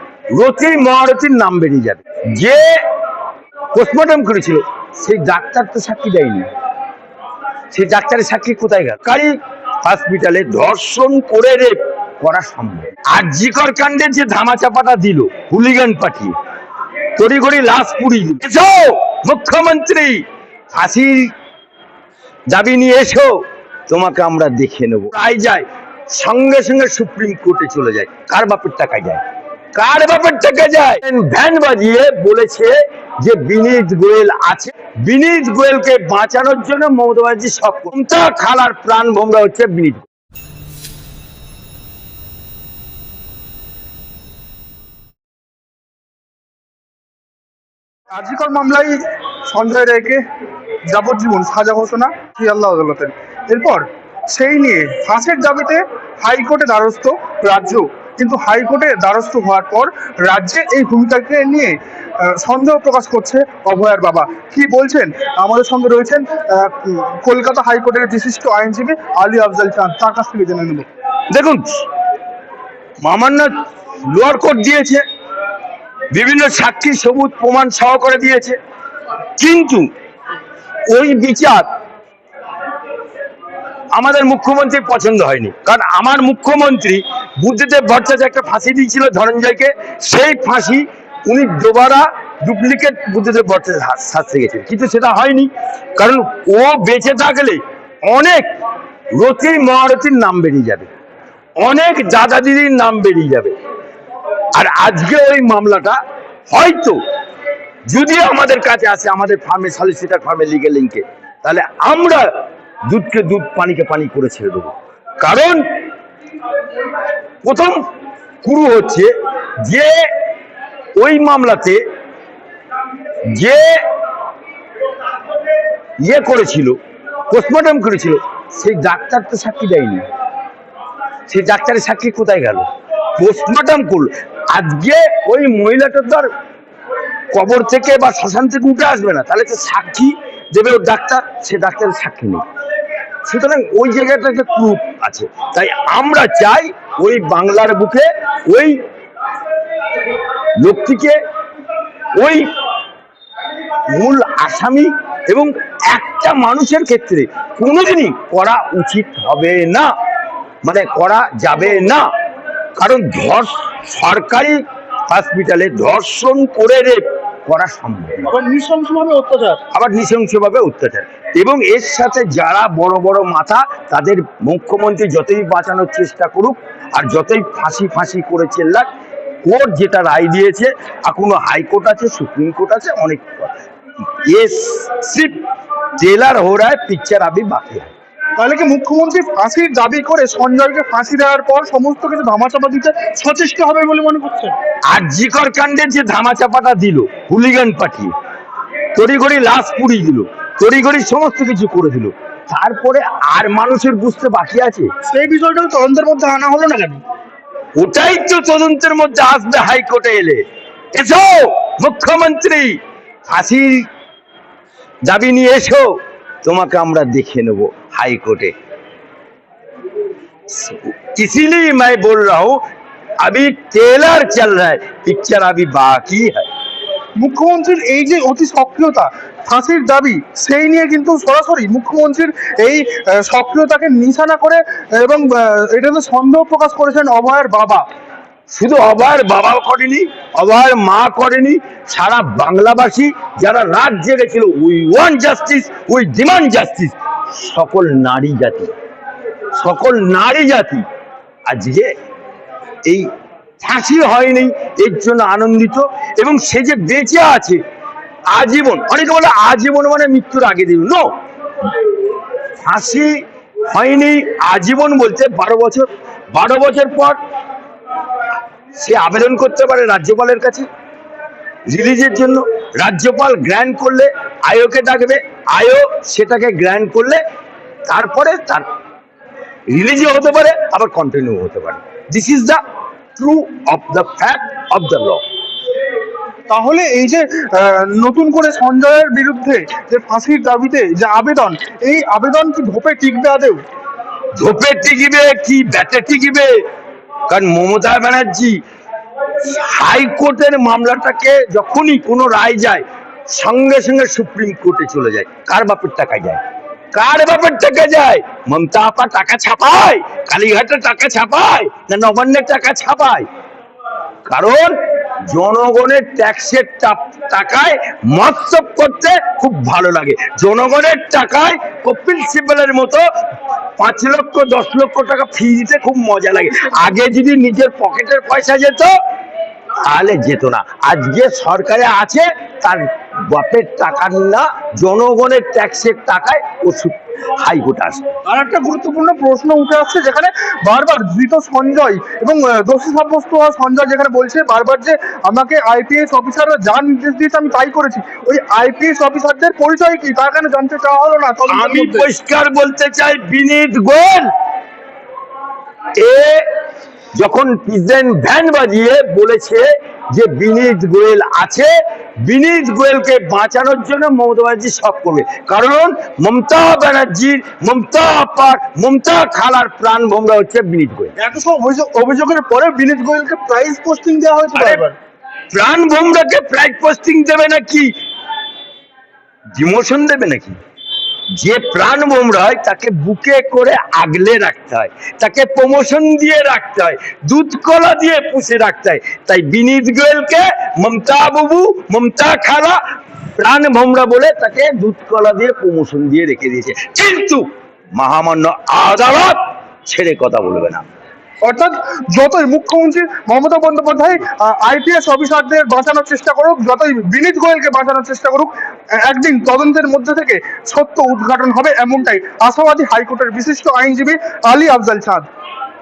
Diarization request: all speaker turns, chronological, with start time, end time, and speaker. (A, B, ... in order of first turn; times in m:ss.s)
0:00.3-0:02.8 A
0:03.7-0:06.5 A
0:07.7-0:16.4 A
0:17.2-0:21.3 A
0:22.5-0:29.2 A
0:29.7-0:40.1 A
0:48.1-0:50.2 B
0:50.9-1:10.9 B
1:11.3-1:11.8 A
1:13.0-1:15.0 A
1:16.1-1:18.6 A
1:19.4-1:19.9 A
1:20.9-1:21.7 A
1:23.9-1:38.5 A
1:39.1-1:40.9 A
1:41.6-1:43.5 A
1:44.5-1:46.0 A
1:46.5-1:47.0 A
1:47.9-1:52.3 A
1:52.9-1:55.6 A
1:57.4-1:57.8 A
1:58.4-1:59.1 A
1:59.6-2:00.0 A
2:01.0-2:01.8 A
2:03.3-2:03.8 A
2:06.0-2:06.8 A
2:07.3-2:10.1 A
2:11.3-2:16.3 A
2:17.3-2:22.4 A
2:23.2-2:28.8 A
2:30.6-2:31.2 A
2:32.2-2:32.5 A
2:33.9-2:39.9 A
2:40.6-2:42.1 A
2:42.8-2:48.4 A
2:48.3-2:49.6 B
2:49.7-2:58.9 A
2:59.4-3:03.5 A
3:04.1-3:05.4 A
3:06.0-3:07.9 A
3:08.4-3:14.6 B
3:14.9-3:18.1 A
3:18.9-3:24.9 A
3:25.0-3:27.0 B
3:27.8-3:30.4 A
3:30.9-3:33.9 A
3:35.0-3:38.5 A
3:40.5-3:42.6 A
3:43.2-3:46.4 A
3:47.2-3:57.8 B
3:58.5-4:08.7 A
4:09.5-4:10.8 A
4:11.5-4:11.9 A
4:13.6-4:17.6 A
4:18.3-4:21.1 A
4:22.6-4:27.2 A
4:28.8-4:30.7 A
4:31.7-4:37.2 A
4:37.9-4:38.7 A
4:39.7-4:42.6 A
4:43.2-4:45.2 A
4:46.5-4:53.6 B
4:54.4-4:56.6 A
4:57.3-4:58.6 A
4:59.4-5:06.4 A
5:06.9-5:13.2 A
5:14.2-5:23.0 A
5:23.8-5:28.9 A
5:29.8-5:38.1 A
5:38.2-5:52.1 B
5:51.5-5:54.3 A
5:55.9-5:56.5 A
5:57.1-6:01.7 A
6:02.2-6:11.2 A
6:11.2-6:15.0 B
6:14.5-6:14.8 A
6:15.5-6:17.9 A
6:19.5-6:20.6 A
6:21.4-6:32.8 A
6:33.4-6:40.8 A
6:41.4-6:55.3 B